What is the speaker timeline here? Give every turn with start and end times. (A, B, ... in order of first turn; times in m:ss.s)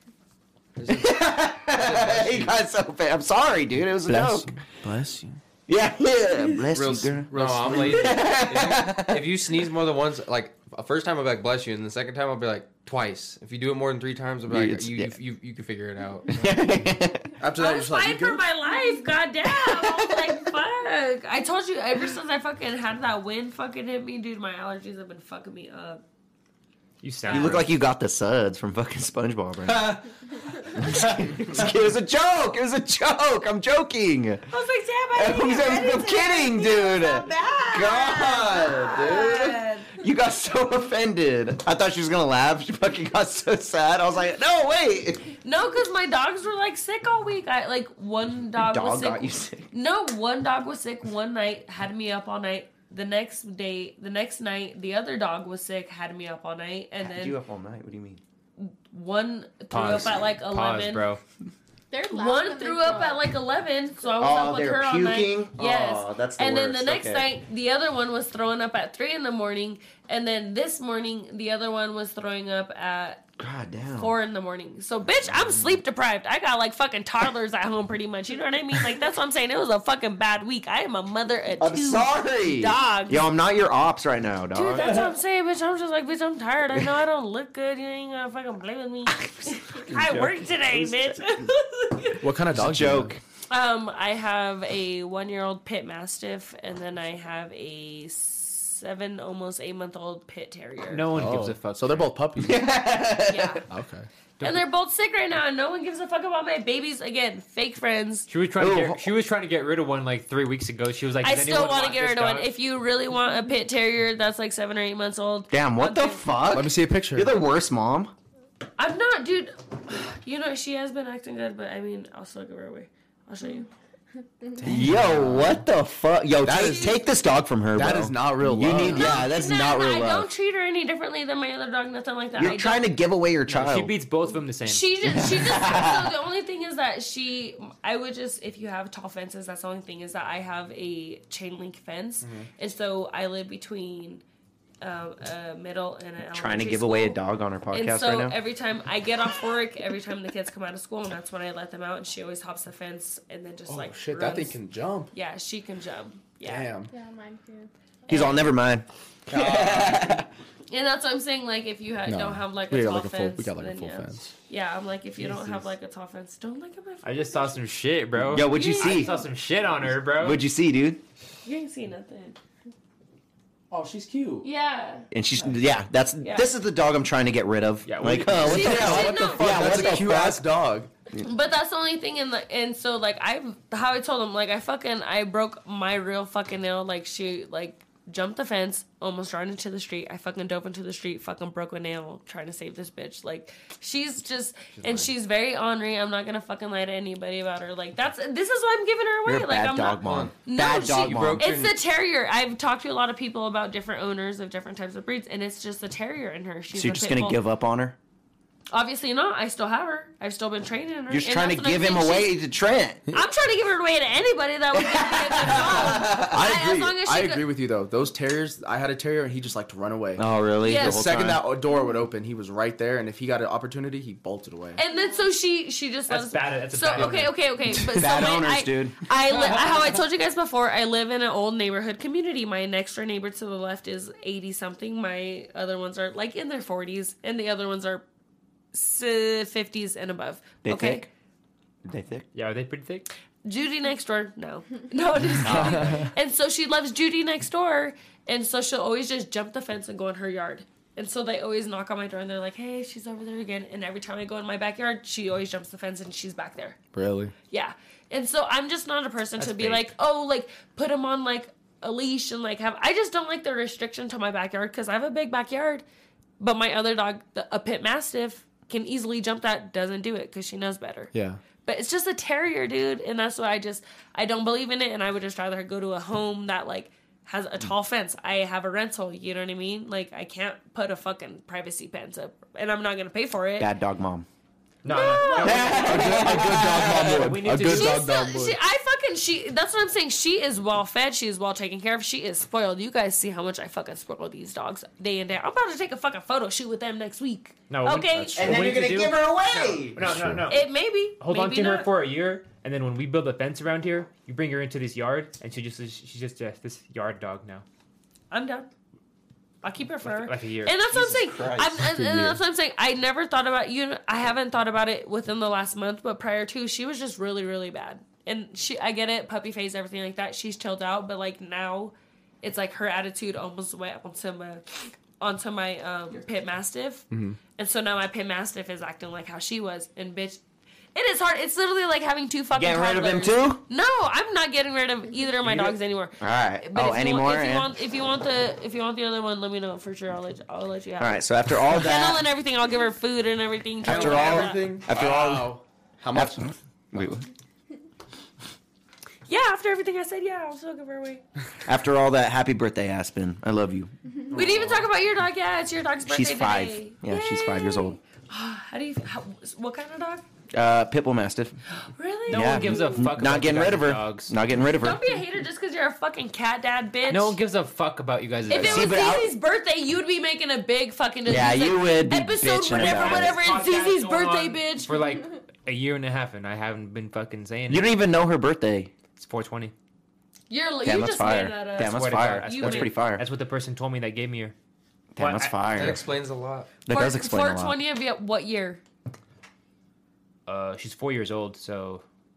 0:00.8-0:02.6 A
0:00.9-0:04.5 B
0:04.1-0:05.4 C
0:05.7-0:09.5 B
0:06.7-0:08.4 C
0:07.3-0:16.6 A
0:14.5-0:15.1 B
0:16.4-0:17.4 B
0:17.4-0:18.4 C
0:17.6-0:26.0 D
0:27.0-0:27.6 E
0:27.3-0:27.6 D
0:27.3-0:30.0 B
0:30.6-0:34.5 B
0:34.5-0:40.0 D
0:35.1-0:45.3 B
0:45.4-0:57.4 D
0:48.6-0:49.7 B
0:57.0-0:58.2 B
0:58.6-1:01.0 D
0:59.7-1:01.2 E
1:01.9-1:03.3 F
1:02.1-1:13.2 D
1:04.2-1:07.3 B
1:13.4-1:14.1 B
1:13.9-1:23.2 D
1:21.6-1:25.1 B
1:24.5-1:32.3 D
1:29.7-1:31.4 B
1:32.2-1:33.1 C
1:32.5-1:33.2 B
1:33.5-1:41.1 D
1:40.9-1:42.1 E
1:41.1-1:42.6 C
1:42.4-1:43.6 B
1:43.2-1:43.6 D
1:43.7-1:44.1 C
1:44.4-1:44.6 E
1:44.4-1:48.3 D
1:48.3-1:52.5 E
1:48.6-1:49.1 B
1:51.2-1:56.3 D
1:55.5-1:58.1 B
1:56.5-1:57.3 C
1:58.8-2:03.7 D
2:04.6-2:10.3 B
2:04.6-2:05.5 E
2:04.7-2:05.3 C
2:06.4-2:07.0 C
2:06.5-2:07.0 D
2:07.7-2:09.2 C
2:08.8-2:12.9 D
2:12.4-2:13.9 B
2:13.5-2:14.8 E
2:14.6-2:24.2 D
2:15.0-2:16.1 B
2:22.2-2:22.5 C
2:24.8-2:27.2 D
2:26.3-2:28.4 B
2:27.7-2:34.6 D
2:33.7-2:35.1 C
2:35.1-2:36.7 D
2:36.4-2:36.9 C
2:36.9-2:37.7 F
2:38.1-2:38.5 D
2:38.1-2:40.3 B
2:39.3-2:40.2 C
2:40.7-2:47.6 D
2:42.0-2:44.3 C
2:45.4-2:45.6 E
2:47.0-2:50.4 E
2:48.2-2:49.2 B
2:48.4-2:49.3 D
2:50.2-2:51.0 B
2:51.4-2:52.4 D
2:53.7-2:54.5 C
2:54.4-2:55.0 D
2:55.1-3:00.4 B
2:56.2-2:56.5 D
2:57.8-2:58.9 E
2:58.4-3:00.9 C
2:58.4-3:00.1 D
3:01.2-3:27.4 D
3:19.2-3:21.5 B
3:20.0-3:20.4 A
3:20.9-3:21.8 A
3:26.7-3:28.0 B
3:28.7-3:32.3 D
3:31.1-3:33.0 B
3:33.1-3:37.4 D
3:34.7-3:36.4 B
3:35.5-3:44.8 C
3:40.2-3:41.5 B
3:40.6-3:41.0 D
3:44.8-3:58.0 D
3:46.1-3:47.4 E
3:47.8-3:49.0 B
3:58.7-4:01.1 D
4:00.6-4:01.1 B
4:01.8-4:02.2 B
4:02.3-4:03.1 E
4:03.4-4:16.8 D
4:05.4-4:06.0 B
4:05.4-4:06.0 C
4:16.9-4:17.3 C
4:17.5-4:25.8 D
4:19.4-4:19.9 E
4:26.4-4:31.1 D
4:31.1-4:31.4 C
4:31.6-4:43.7 D
4:43.6-4:44.3 B
4:44.8-4:48.1 E
4:44.8-4:46.3 D
4:45.4-4:47.4 B
4:45.4-4:48.6 C
4:47.6-4:58.6 D
4:57.7-5:07.6 E
4:58.3-5:00.4 B
5:00.0-5:00.4 C
5:00.5-5:01.9 D
5:08.3-5:08.7 D
5:09.6-5:27.0 D
5:10.0-5:11.0 E
5:10.9-5:12.0 B
5:12.0-5:12.3 C
5:27.1-5:27.4 C
5:27.6-5:30.4 D
5:30.9-5:44.6 D
5:32.5-5:33.6 B
5:36.2-5:37.7 B
5:41.0-5:42.2 B
5:43.8-5:45.5 B
5:43.8-5:47.1 C
5:46.1-5:47.3 B
5:49.3-5:51.2 D
5:51.6-5:53.9 B
5:54.3-5:54.9 E
5:54.3-6:00.2 D
5:56.0-5:58.0 B
6:00.5-6:01.6 B
6:01.8-6:03.0 D
6:02.3-6:04.3 E
6:02.3-6:05.0 B
6:04.8-6:07.4 D
6:07.1-6:09.0 E
6:08.5-6:15.0 D
6:08.5-6:09.3 B
6:11.2-6:13.4 B
6:12.7-6:17.9 E
6:17.7-6:18.9 B
6:19.2-6:19.7 E
6:20.5-6:22.9 D
6:20.8-6:23.2 B
6:21.8-6:24.5 E
6:25.1-6:26.0 B
6:25.2-6:25.9 E
6:25.7-6:26.7 A
6:26.8-6:27.8 B
6:26.9-6:28.8 D
6:30.4-6:32.0 E